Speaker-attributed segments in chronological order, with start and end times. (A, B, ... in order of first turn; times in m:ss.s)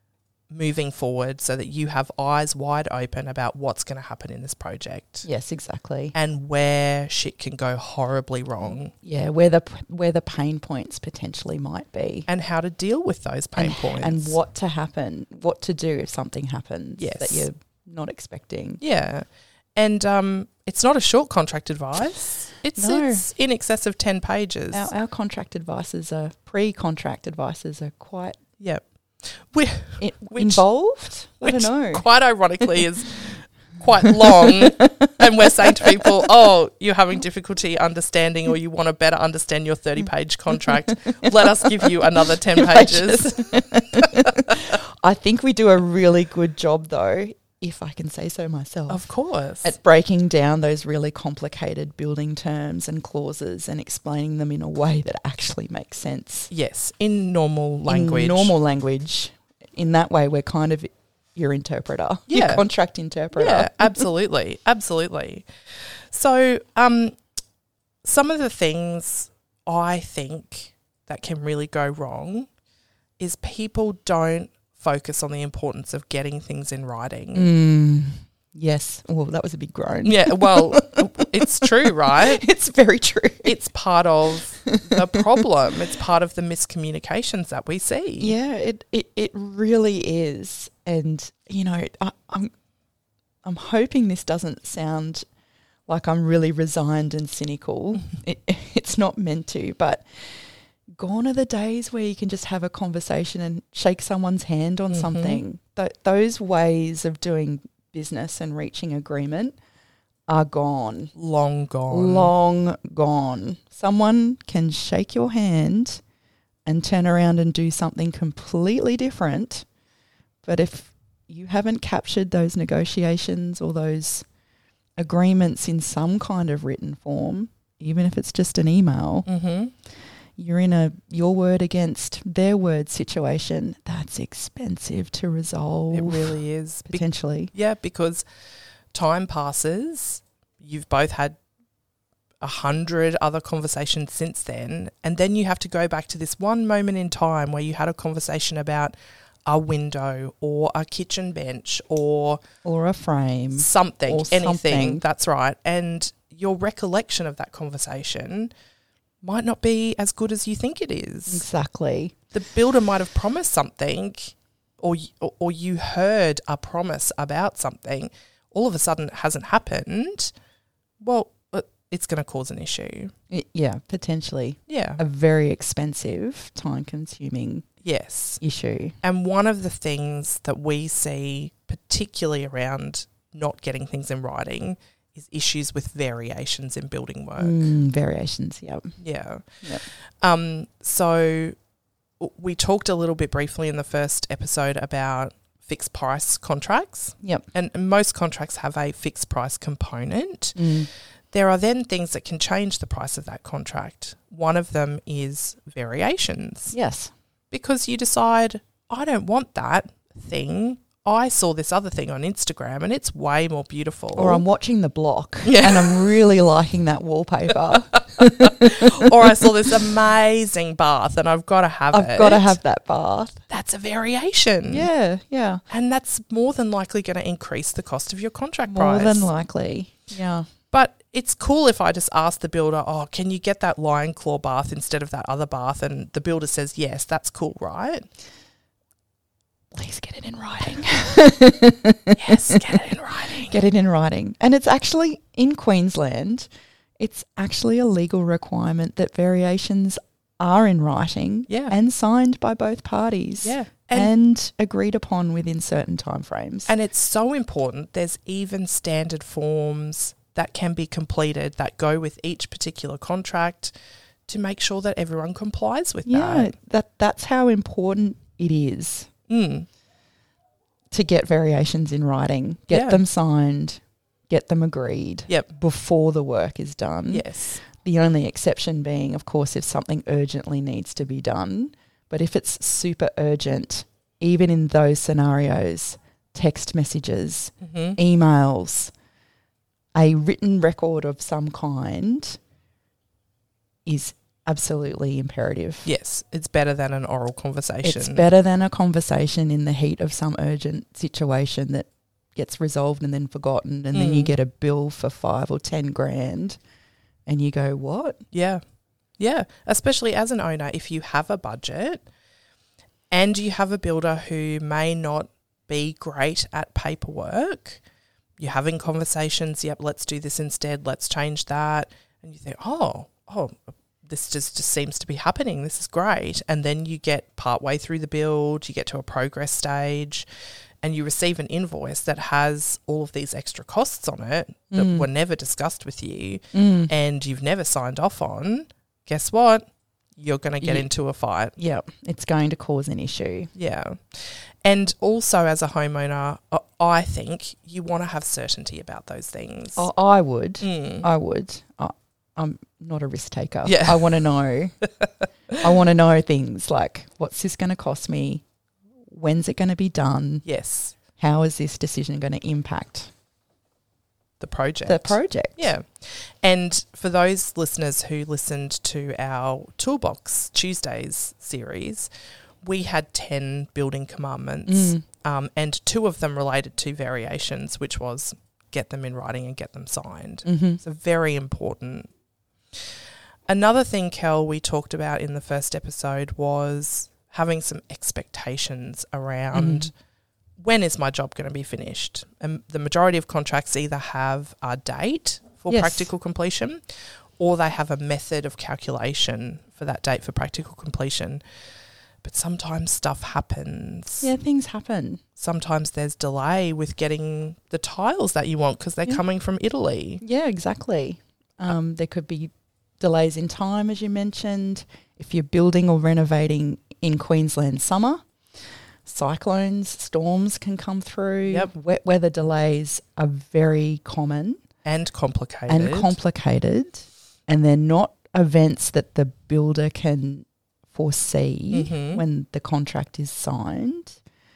0:00.5-0:05.3 A
0:05.2-0:06.2 B
0:06.2-0:08.9 A
0:09.0-0:12.3 B
0:12.3-0:14.4 A
0:13.6-0:18.8 B
0:17.0-0:17.5 A
0:18.8-0:24.9 A
0:22.8-0:23.2 B
0:24.7-0:28.4 B
0:28.6-0:30.6 A
0:30.0-0:32.1 B
0:31.4-0:44.6 A
0:34.1-0:36.0 B
0:40.5-0:49.1 B
0:48.9-0:49.7 A
0:49.6-0:56.5 B
0:56.5-0:58.5 A
0:57.9-1:04.1 B
1:02.3-1:02.6 A
1:03.3-1:05.5 A
1:06.1-1:07.2 A
1:08.0-1:12.5 A
1:13.2-1:17.5 A
1:17.3-1:23.5 B
1:20.0-1:22.4 A
1:23.4-1:28.3 A
1:24.6-1:25.4 B
1:28.2-1:32.5 B
1:33.4-1:35.2 B
1:35.9-1:49.6 B
1:44.9-1:45.4 A
1:50.3-1:51.1 B
1:51.1-1:52.3 A
1:51.9-1:56.0 B
1:56.6-1:59.6 B
2:00.4-2:04.2 B
2:05.0-2:09.2 B
2:09.2-2:09.7 A
2:10.4-2:17.5 B
2:15.9-2:18.2 A
2:18.9-2:21.4 A
2:22.4-2:28.9 A
2:29.4-2:32.4 A
2:32.6-2:35.0 B
2:33.6-2:38.5 A
2:39.2-2:41.4 A
2:41.3-2:42.1 B
2:42.3-2:50.3 A
2:51.0-2:53.1 A
2:53.3-2:57.7 B
2:54.7-2:55.0 A
2:57.8-2:58.4 A
2:58.4-2:59.0 B
2:59.0-3:07.7 A
3:07.4-3:09.0 B
3:09.0-3:09.6 A
3:10.2-3:11.6 A
3:12.2-3:26.8 A
3:20.6-3:20.9 B
3:26.7-3:27.1 B
3:27.5-3:34.4 A
3:34.1-3:39.5 B
3:35.4-3:36.1 A
3:37.9-3:42.6 A
3:41.9-3:43.4 B
3:43.5-3:44.9 A
3:44.7-3:45.6 B
3:45.7-3:49.3 A
3:48.7-3:50.5 B
3:50.7-3:58.1 A
3:59.7-4:02.8 B
4:02.1-4:03.6 A
4:03.4-4:16.7 B
4:11.5-4:11.8 A
4:13.4-4:14.1 A
4:16.7-4:23.7 A
4:24.3-4:26.5 A
4:26.1-4:29.1 B
4:29.3-4:29.7 A
4:30.9-4:48.9 B
4:32.7-4:33.0 A
4:37.1-4:37.6 A
4:47.6-4:48.0 A
4:49.9-4:52.4 B
4:53.8-4:55.9 B
4:55.8-4:58.3 A
4:57.8-5:06.6 B
5:03.9-5:04.3 A
5:07.3-5:08.2 B
5:08.3-5:08.6 A
5:09.2-5:12.1 A
5:13.1-5:17.8 A
5:18.4-5:30.3 A
5:30.8-5:41.6 A
5:34.7-5:35.1 B
5:36.5-5:36.9 B
5:40.6-5:40.9 B
5:41.6-5:43.5 B
5:43.6-5:49.9 A
5:49.8-5:54.8 B
5:50.6-5:51.1 A
5:53.6-5:54.2 A
5:55.6-5:58.4 B
5:59.1-6:00.4 B
6:00.4-6:01.0 A
6:01.2-6:03.1 B
6:04.4-6:12.1 A
6:04.9-6:05.7 B
6:12.6-6:22.1 A
6:14.7-6:15.0 B
6:20.4-6:20.8 B
6:23.5-6:29.9 A
6:29.5-6:29.9 B
6:30.6-6:36.8 A
6:35.7-6:36.1 B
6:37.4-6:41.4 A
6:42.2-6:44.3 A
6:44.2-6:45.2 B
6:45.4-6:50.2 A
6:50.2-6:58.2 B
6:59.1-7:04.6 B
7:04.8-7:06.2 A
7:05.7-7:14.2 B
7:11.7-7:12.2 A